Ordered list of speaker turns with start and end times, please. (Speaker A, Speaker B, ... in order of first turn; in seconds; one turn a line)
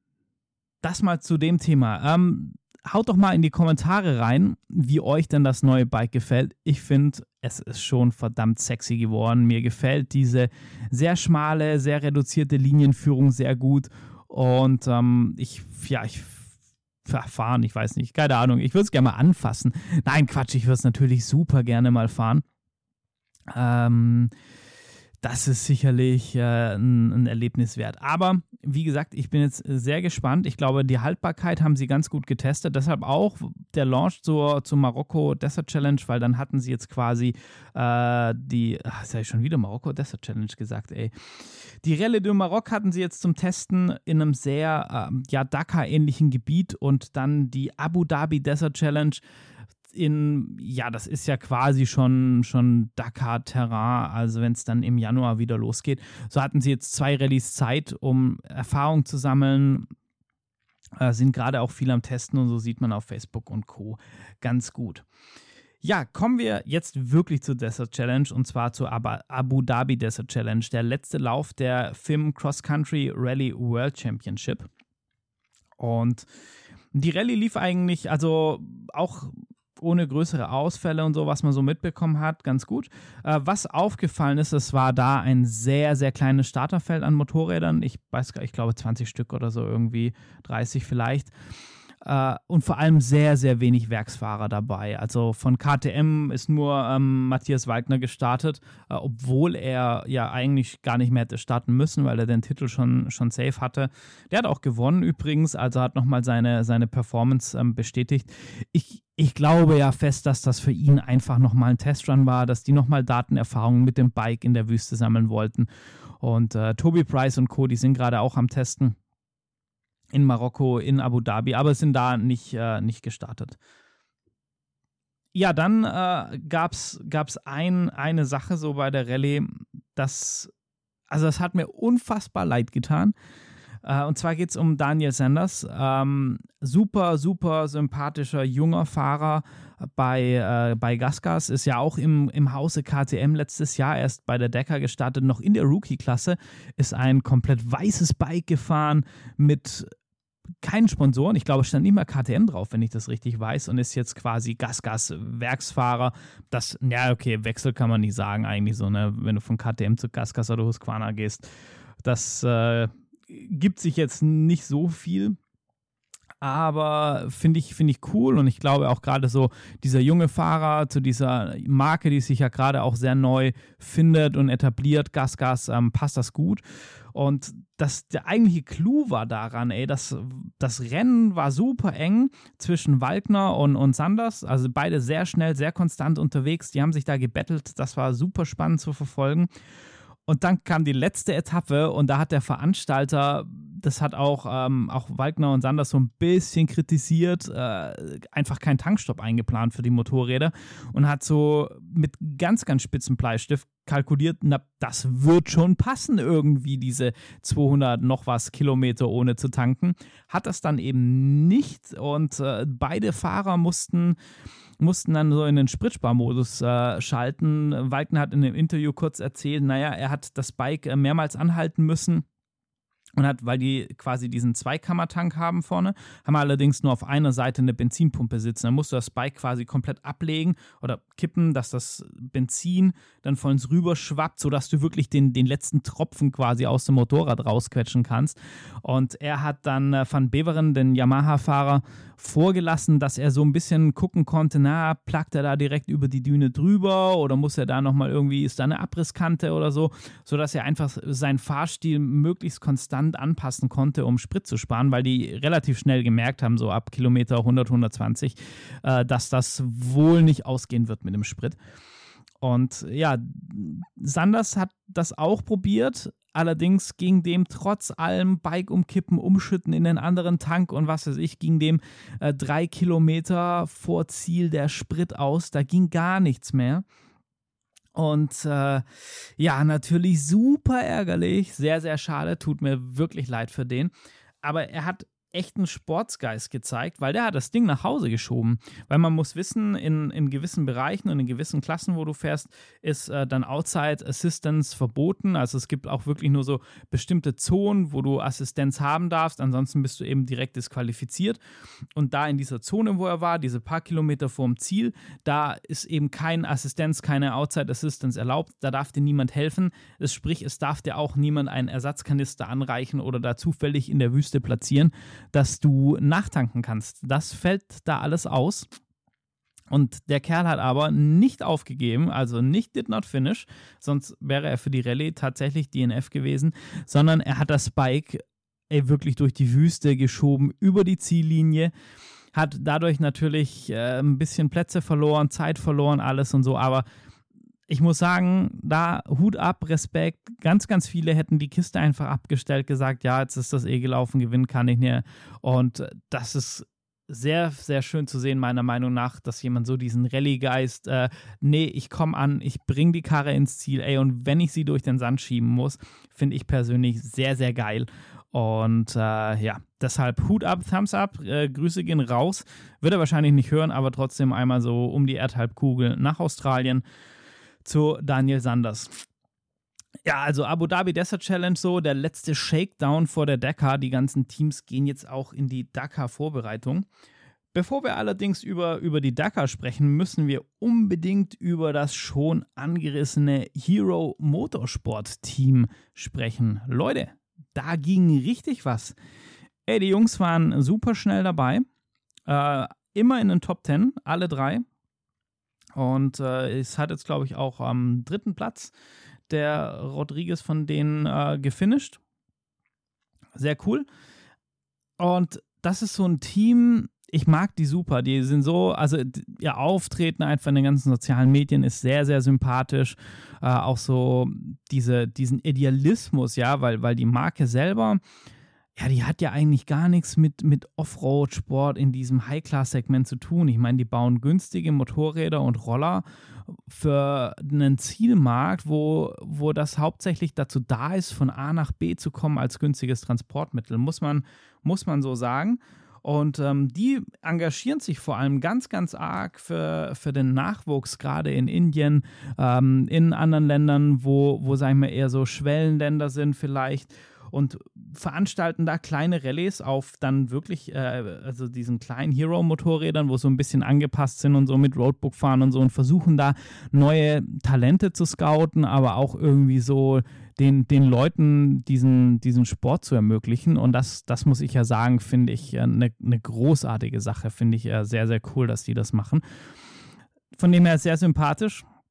Speaker A: 0.8-16.5
Speaker A: 17.0-22.4
Speaker A: 23.5-24.3
Speaker A: 25.2-49.2
Speaker A: 49.9-59.9
Speaker A: 61.0-65.0
Speaker A: 65.8-74.7
Speaker A: 75.8-76.3
Speaker A: 76.9-91.3
Speaker A: 92.0-115.7
Speaker A: 116.2-119.0
Speaker A: 120.1-123.6
Speaker A: 125.3-130.5
Speaker A: 131.1-133.1
Speaker A: 133.8-149.9
Speaker A: 150.6-161.5
Speaker A: 162.0-165.4
Speaker A: 166.4-176.6
Speaker A: 177.1-189.5
Speaker A: 190.3-214.2
Speaker A: 214.8-222.2
Speaker A: 223.2-261.6
Speaker A: 262.4-276.8
Speaker A: 277.9-301.4
Speaker A: 301.9-318.7
Speaker A: 319.7-331.7
Speaker A: 332.3-336.8
Speaker A: 337.7-366.8
Speaker A: 367.6-369.0
Speaker A: 370.0-376.9
Speaker A: 377.5-388.9
Speaker A: 389.6-391.6
Speaker A: 392.3-394.6
Speaker A: 395.7-398.7
Speaker A: 399.3-402.0
Speaker A: 403.3-403.9
Speaker A: 405.0-418.0
Speaker A: 418.8-426.0
Speaker A: 426.6-469.2
Speaker A: 470.3-471.6